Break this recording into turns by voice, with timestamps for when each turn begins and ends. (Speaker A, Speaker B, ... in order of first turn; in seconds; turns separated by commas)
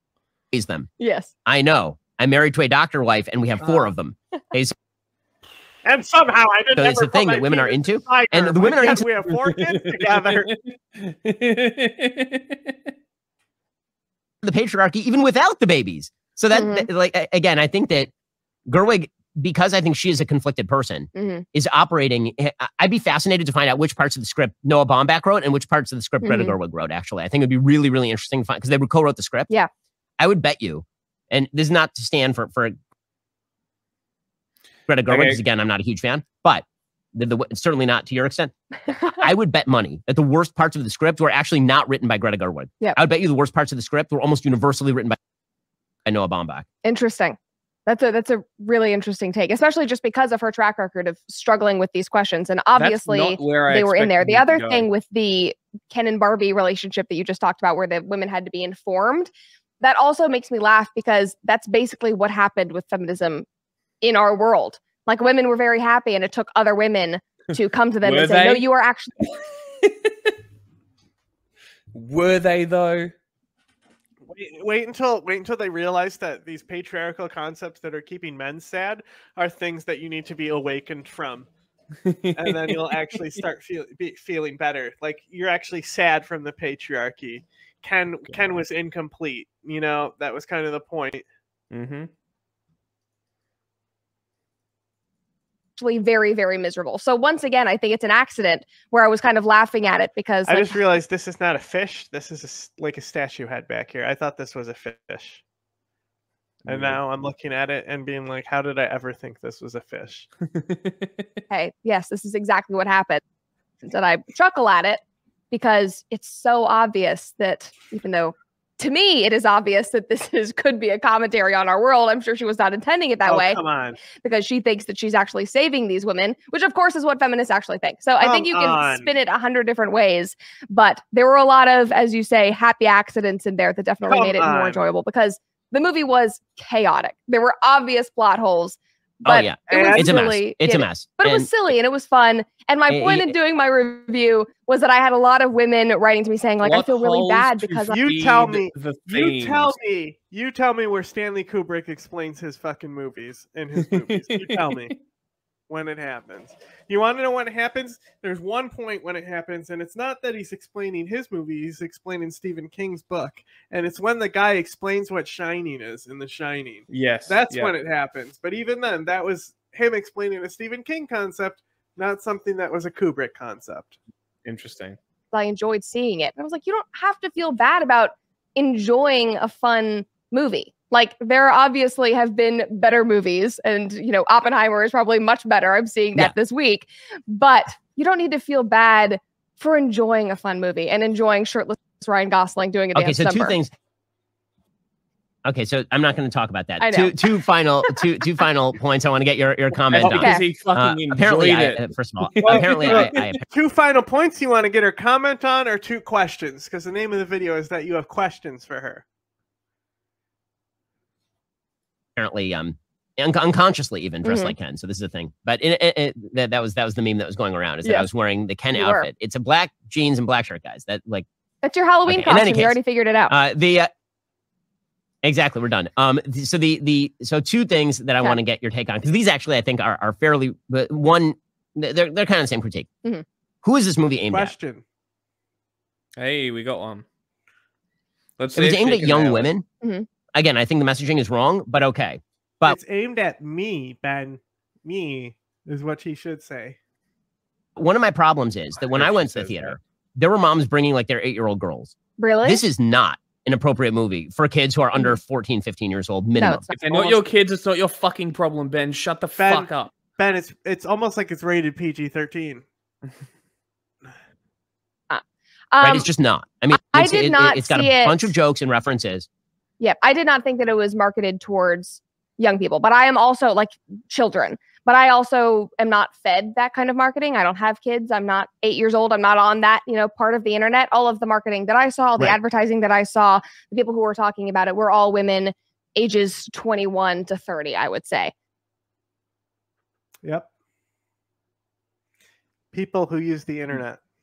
Speaker A: 0.5-0.9, Speaker B: 1.0-1.3, Speaker A: 1.4-4.7, Speaker C: 3.6-3.9, Speaker C: 5.8-10.5, Speaker A: 6.8-9.1, Speaker D: 9.5-12.8, Speaker A: 14.4-18.1, Speaker B: 16.5-16.9, Speaker A: 18.7-29.5, Speaker B: 21.1-21.4, Speaker B: 26.2-26.5, Speaker A: 30.2-32.8, Speaker A: 34.9-45.2, Speaker D: 35.1-35.4, Speaker B: 38.9-39.2, Speaker A: 46.0-46.6, Speaker B: 46.8-63.4, Speaker D: 52.7-54.9, Speaker B: 64.0-69.3, Speaker D: 68.0-68.6, Speaker D: 71.9-73.1, Speaker C: 74.2-81.5, Speaker D: 82.0-82.7, Speaker C: 82.3-91.2, Speaker D: 88.3-88.5, Speaker D: 91.7-92.1, Speaker B: 95.8-100.8, Speaker C: 100.5-105.4, Speaker D: 106.6-107.0, Speaker C: 106.7-110.3, Speaker D: 110.5-111.2, Speaker B: 111.5-113.2, Speaker B: 113.8-148.0, Speaker C: 123.2-124.0, Speaker C: 128.2-129.1, Speaker C: 134.1-134.8, Speaker A: 139.2-141.5, Speaker C: 139.7-140.2, Speaker A: 142.9-143.3, Speaker D: 146.6-149.7, Speaker C: 147.9-154.9, Speaker D: 153.9-154.7, Speaker C: 155.7-174.0, Speaker D: 166.9-167.7, Speaker D: 174.4-175.0, Speaker B: 175.3-193.6, Speaker A: 192.9-193.7, Speaker A: 195.4-203.4, Speaker B: 196.8-197.2, Speaker D: 199.9-203.1, Speaker B: 200.0-200.4, Speaker C: 202.4-209.0, Speaker A: 212.2-221.2, Speaker B: 214.2-214.5, Speaker B: 218.7-219.1, Speaker B: 221.6-223.3, Speaker A: 222.1-222.8, Speaker A: 223.3-223.9, Speaker A: 225.2-232.9, Speaker A: 233.6-234.5, Speaker C: 234.3-234.8, Speaker D: 236.2-237.0, Speaker D: 238.4-239.5, Speaker A: 238.6-239.7, Speaker A: 240.3-242.8, Speaker C: 242.6-246.8, Speaker A: 247.8-256.7, Speaker D: 248.9-249.7, Speaker B: 252.2-252.6, Speaker B: 256.4-257.2, Speaker D: 256.8-259.9, Speaker C: 259.4-262.6, Speaker B: 265.1-266.1, Speaker A: 265.8-269.3, Speaker B: 266.7-268.3, Speaker B: 269.8-288.3, Speaker C: 292.7-294.0